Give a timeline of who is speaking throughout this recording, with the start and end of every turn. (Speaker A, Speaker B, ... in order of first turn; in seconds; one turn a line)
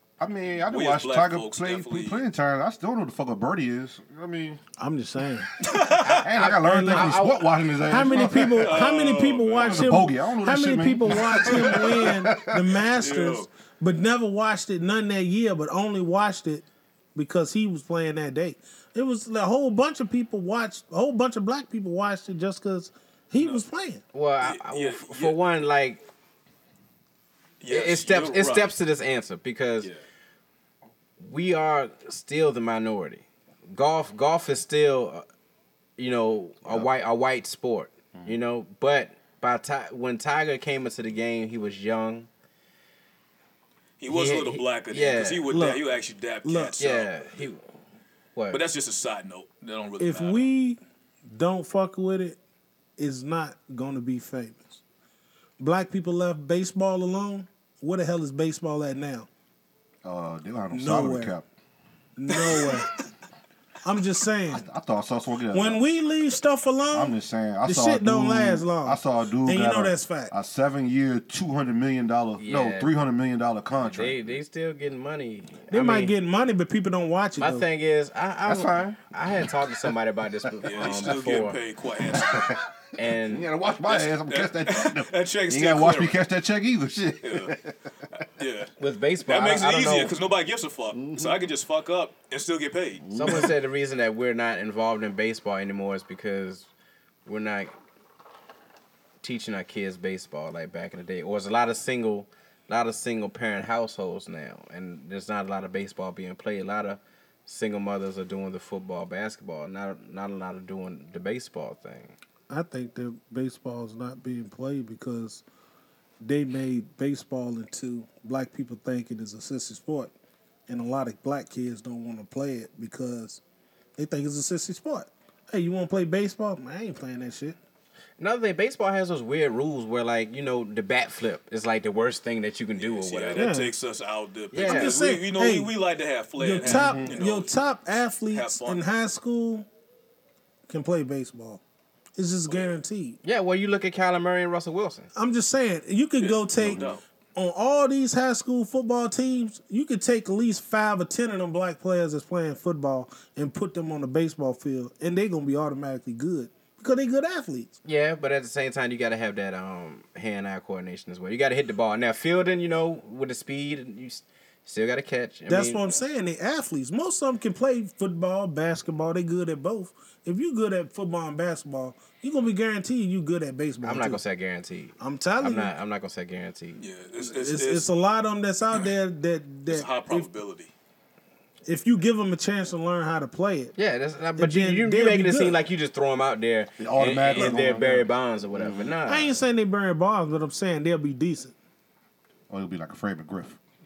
Speaker A: 0.2-4.6
Speaker B: 0.6-2.2
Speaker C: 4.8-5.5
Speaker B: 5.6-6.3
Speaker A: 5.8-8.8
Speaker D: 6.0-7.5
Speaker C: 6.6-7.2
Speaker C: 7.8-24.0
Speaker B: 8.5-10.1
Speaker A: 9.6-12.8
Speaker B: 11.2-12.1
Speaker B: 12.9-13.5
Speaker B: 23.4-23.6
Speaker D: 24.1-26.0
Speaker B: 24.4-25.4
Speaker B: 27.6-28.7
Speaker D: 27.6-29.9
Speaker D: 31.2-35.2
Speaker D: 36.0-42.3
Speaker A: 38.1-38.4
Speaker B: 44.0-47.2
Speaker D: 44.1-45.5
Speaker C: 45.5-45.8
Speaker C: 46.4-46.8
Speaker D: 46.8-47.6
Speaker D: 48.3-48.6
Speaker B: 48.5-50.5
Speaker C: 50.0-52.4
Speaker C: 53.0-54.8
Speaker C: 55.6-59.3
Speaker A: 60.0-61.5
Speaker C: 60.7-61.3
Speaker C: 62.2-62.9
Speaker B: 62.3-62.8
Speaker C: 63.8-64.7
Speaker A: 64.5-65.8
Speaker C: 65.5-70.3
Speaker A: 66.9-74.4
Speaker D: 72.4-72.9
Speaker D: 73.8-76.1
Speaker C: 75.7-77.7
Speaker D: 77.4-81.6
Speaker A: 78.4-79.9
Speaker B: 80.6-82.6
Speaker A: 82.0-87.9
Speaker D: 83.0-83.5
Speaker B: 83.8-86.2
Speaker B: 87.2-87.5
Speaker B: 88.2-93.5
Speaker D: 88.8-90.1
Speaker A: 90.9-91.4
Speaker A: 93.0-93.5
Speaker D: 93.1-96.7
Speaker D: 97.2-97.7
Speaker D: 99.2-112.2
Speaker C: 112.5-115.4
Speaker C: 116.2-120.1
Speaker C: 120.7-123.4
Speaker C: 124.0-127.6
Speaker D: 128.2-133.5
Speaker B: 132.8-137.6
Speaker C: 133.3-133.7
Speaker D: 134.5-135.0
Speaker C: 134.6-135.7
Speaker C: 136.4-139.7
Speaker A: 136.6-137.2
Speaker B: 138.3-138.8
Speaker C: 140.7-141.6
Speaker C: 142.2-143.2
Speaker B: 142.5-142.8
Speaker D: 143.2-145.1
Speaker C: 145.1-157.7
Speaker B: 146.2-147.0
Speaker A: 146.6-146.9
Speaker D: 157.8-165.9
Speaker C: 165.5-174.2
Speaker D: 173.8-176.8
Speaker C: 175.0-175.7
Speaker B: 176.8-177.9
Speaker C: 177.3-180.3
Speaker B: 179.7-180.7
Speaker C: 181.7-183.7
Speaker D: 183.8-189.4
Speaker C: 184.4-185.6
Speaker A: 186.8-189.0
Speaker B: 187.3-187.6
Speaker C: 189.1-191.5
Speaker A: 192.5-193.6